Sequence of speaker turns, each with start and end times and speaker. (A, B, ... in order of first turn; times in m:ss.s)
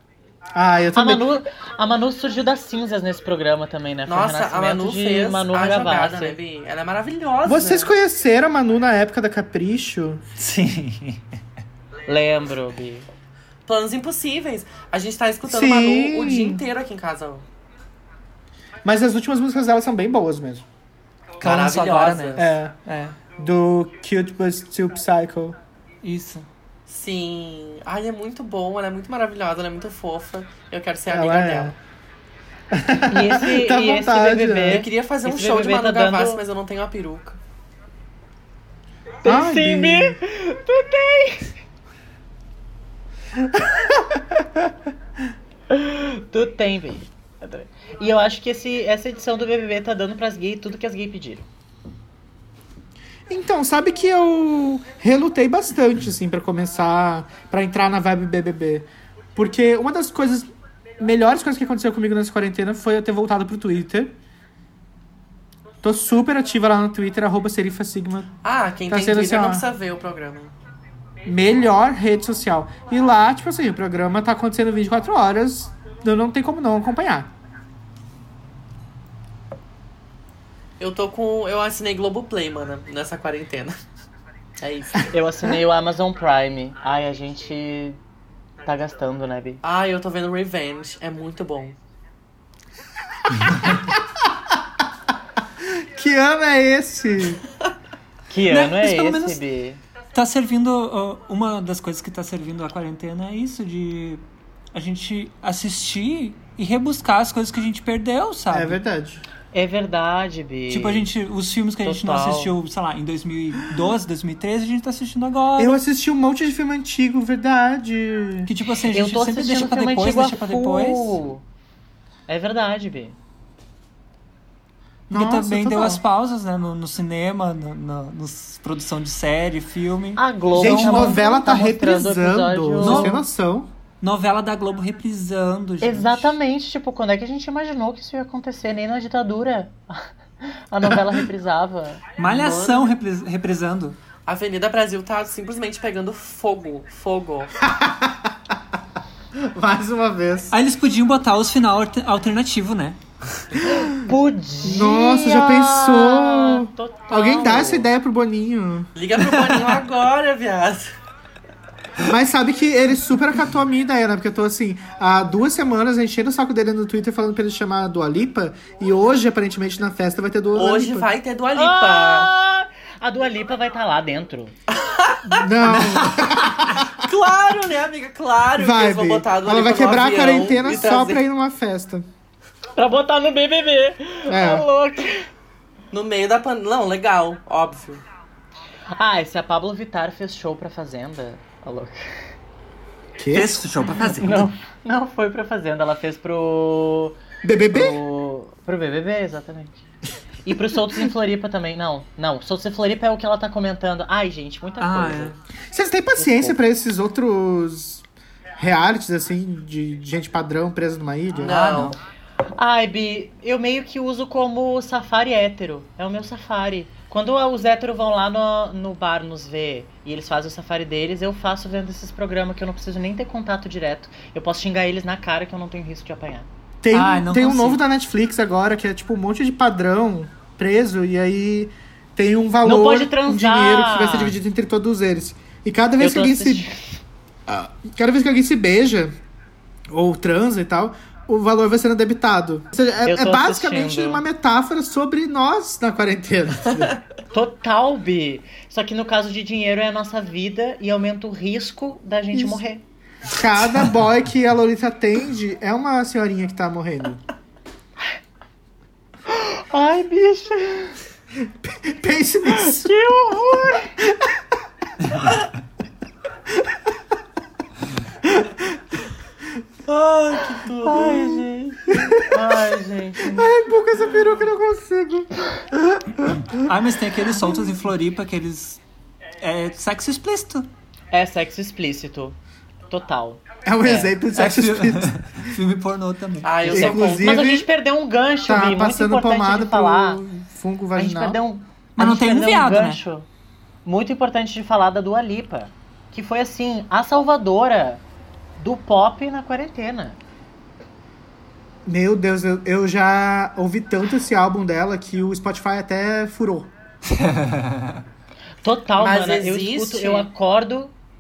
0:00.6-0:01.3 A
0:01.0-0:06.4 B
0:04.1-0:07.9 C
0:07.4-0:10.2 A
0:10.4-0:11.3 D
0:12.1-0:13.1 B
0:13.7-0:17.5 C
0:15.4-0:16.6 A
0:18.8-0:20.7 A
0:21.4-0:22.6 C
0:21.4-0:23.2 D
0:22.4-0:22.8 A
0:23.4-0:25.6 A
0:26.0-0:26.5 D
0:26.9-0:31.8 C
0:31.1-0:31.8 A
0:32.7-0:34.8 A
0:33.1-0:36.4 B
0:34.7-0:37.4 C
0:39.2-0:41.5 B
0:39.2-0:40.2 A
0:43.4-0:44.6 A
0:45.7-0:51.5 B
0:53.3-1:04.2 A
1:05.8-1:08.4 A
1:08.4-1:10.5 C
1:08.9-1:09.7 A
1:11.2-1:17.3 A
1:20.8-1:23.8 C
1:24.6-1:25.1 C
1:25.1-1:28.0 B
1:28.6-1:29.6 B
1:29.6-1:31.8 C
1:33.6-1:34.0 A
1:35.6-1:37.4 A
1:38.3-1:39.8 B
1:38.5-1:39.4 D
1:40.1-1:48.8 D
1:48.5-1:49.2 A
1:49.5-1:51.1 B
1:50.7-1:55.8 D
1:51.8-1:52.5 B
1:55.6-1:58.5 A
1:58.5-2:01.2 D
1:58.9-2:01.4 B
2:02.3-2:03.2 B
2:05.1-2:06.0 A
2:05.1-2:11.2 D
2:10.2-2:13.2 B
2:10.6-2:13.7 A
2:12.8-2:13.2 D
2:14.0-2:16.4 D
2:15.8-2:22.0 B
2:22.2-2:24.0 D
2:22.2-2:22.9 C
2:24.3-2:27.6 C
2:27.6-2:28.4 A
2:29.4-2:30.6 A
2:30.5-2:33.0 D
2:33.6-2:37.9 B
2:34.6-2:38.9 A
2:39.0-2:40.9 C
2:39.2-2:39.6 D
2:42.0-2:51.1 A
2:50.6-2:52.3 C
2:51.6-2:54.6 B
2:54.7-2:55.8 C
2:55.3-2:57.1 A
2:55.6-2:56.4 D
2:56.9-3:01.2 C
2:58.6-3:02.1 A
3:02.8-3:05.3 B
3:04.3-3:04.7 A
3:05.9-3:08.0 C
3:08.9-3:12.3 B
3:13.2-3:13.6 A
3:13.3-3:14.5 D
3:14.0-3:17.2 B
3:17.4-3:18.0 A
3:17.7-3:19.8 B
3:20.4-3:25.4 B
3:24.8-3:25.4 D
3:25.7-3:28.0 A
3:26.2-3:26.6 B
3:28.6-3:31.7 A
3:31.4-3:32.0 C
3:31.5-3:32.0 D
3:32.5-3:46.5 B
3:46.8-3:56.7 A
3:46.9-3:47.8 D
3:52.6-3:54.4 B
3:56.0-3:57.0 B
3:57.5-3:59.2 A
3:59.9-4:07.0 A
4:03.0-4:04.2 B
4:07.3-4:12.8 B
4:12.3-4:12.6 A
4:13.3-4:17.2 A
4:19.3-4:21.0 B
4:21.4-4:22.9 A
4:22.5-4:23.9 B
4:24.0-4:24.4 A
4:28.2-4:28.8 A
4:29.9-4:31.9 C
4:30.9-4:32.6 A
4:32.2-4:33.5 B
4:33.2-4:36.7 A
4:36.5-4:38.8 D
4:39.4-4:40.7 D
4:41.1-4:42.4 B
4:42.9-4:44.1 B
4:43.6-4:45.4 A
4:44.4-4:47.0 D
4:46.4-4:47.5 C
4:46.7-4:47.7 A
4:46.7-4:50.2 B
4:48.5-4:51.4 A
4:51.0-4:53.3 B
4:52.0-4:53.0 D
4:53.8-4:58.0 B
4:58.6-5:00.2 B
5:01.9-5:06.7 A
5:07.1-5:08.0 D
5:08.6-5:10.9 B
5:09.0-5:10.3 C